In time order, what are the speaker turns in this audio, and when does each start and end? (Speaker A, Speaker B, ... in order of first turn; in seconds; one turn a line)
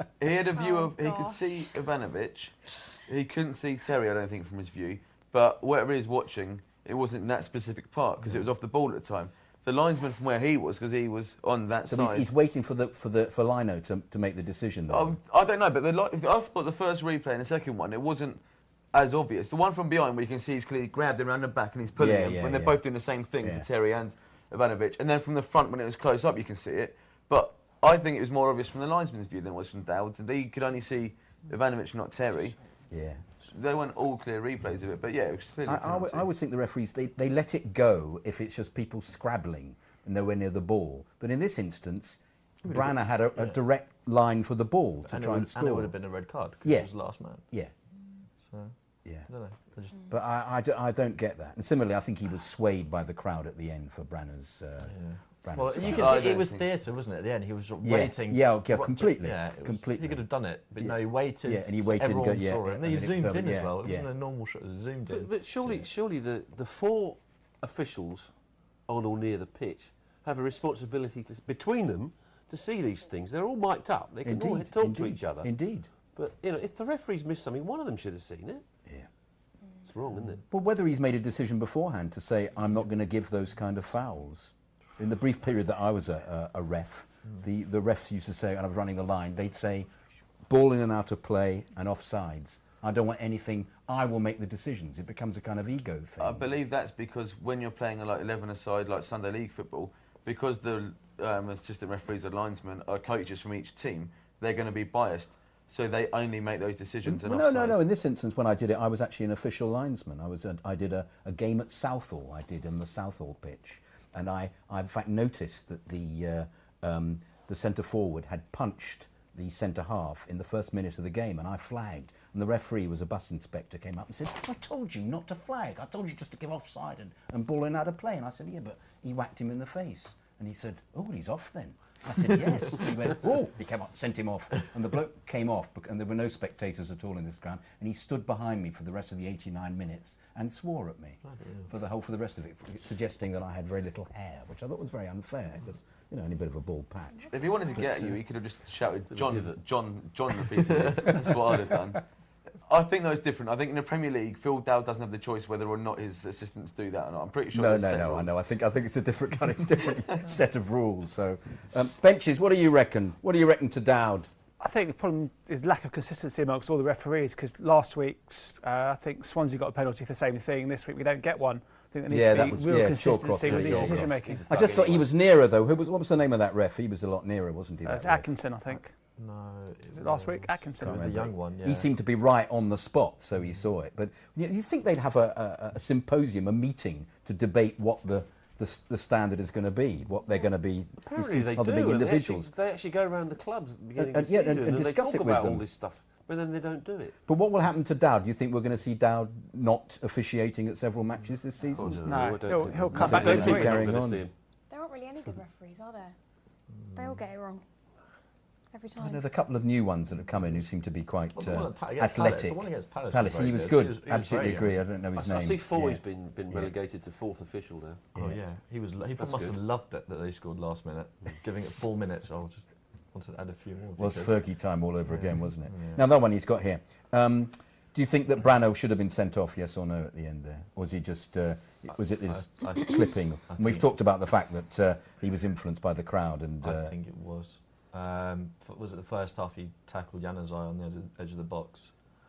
Speaker A: 0.2-12.2
Speaker B: 0.5-1.5
Speaker C: 11.9-15.2
Speaker A: 14.9-18.4
Speaker A: 18.9-32.6
Speaker C: 22.0-22.8
Speaker C: 23.4-23.6
Speaker C: 32.9-33.2
Speaker A: 33.5-36.3
Speaker C: 35.6-45.9
Speaker D: 42.7-43.5
Speaker D: 45.1-47.4
Speaker C: 46.6-46.9
Speaker D: 48.5-48.7
Speaker D: 49.3-50.1
Speaker C: 50.1-56.3
Speaker D: 54.9-65.7
Speaker A: 55.8-56.8
Speaker C: 57.8-64.1
Speaker E: 65.1-68.3
Speaker E: 68.9-75.5
Speaker C: 74.2-75.9
Speaker E: 76.1-78.6
Speaker E: 79.9-80.4
Speaker C: 80.5-89.9
Speaker C: 90.5-96.5
Speaker A: 96.2-107.8
Speaker C: 107.0-147.4
Speaker D: 141.2-141.7
Speaker A: 147.3-152.0
Speaker E: 149.1-149.6
Speaker A: 152.7-158.3
Speaker C: 157.5-164.3
Speaker F: 164.6-174.6
Speaker C: 172.1-178.3
Speaker E: 173.4-175.1
Speaker F: 177.8-178.9
Speaker D: 179.2-181.9
Speaker F: 179.9-181.0
Speaker C: 180.8-192.5
Speaker E: 191.0-197.2
Speaker C: 194.0-195.6
Speaker C: 197.3-202.1
Speaker E: 201.7-204.3
Speaker F: 202.0-203.9
Speaker C: 202.9-204.2
Speaker B: 204.7-206.1
Speaker D: 206.8-207.1
Speaker B: 206.9-207.6
Speaker B: 208.7-209.2
Speaker C: 209.0-216.7
Speaker D: 211.3-214.8
Speaker E: 215.2-218.1
Speaker C: 218.2-218.4
Speaker D: 218.2-224.3
Speaker E: 219.2-219.6
Speaker C: 224.0-236.9
Speaker D: 225.1-226.0
Speaker D: 232.2-233.8
Speaker D: 236.6-241.9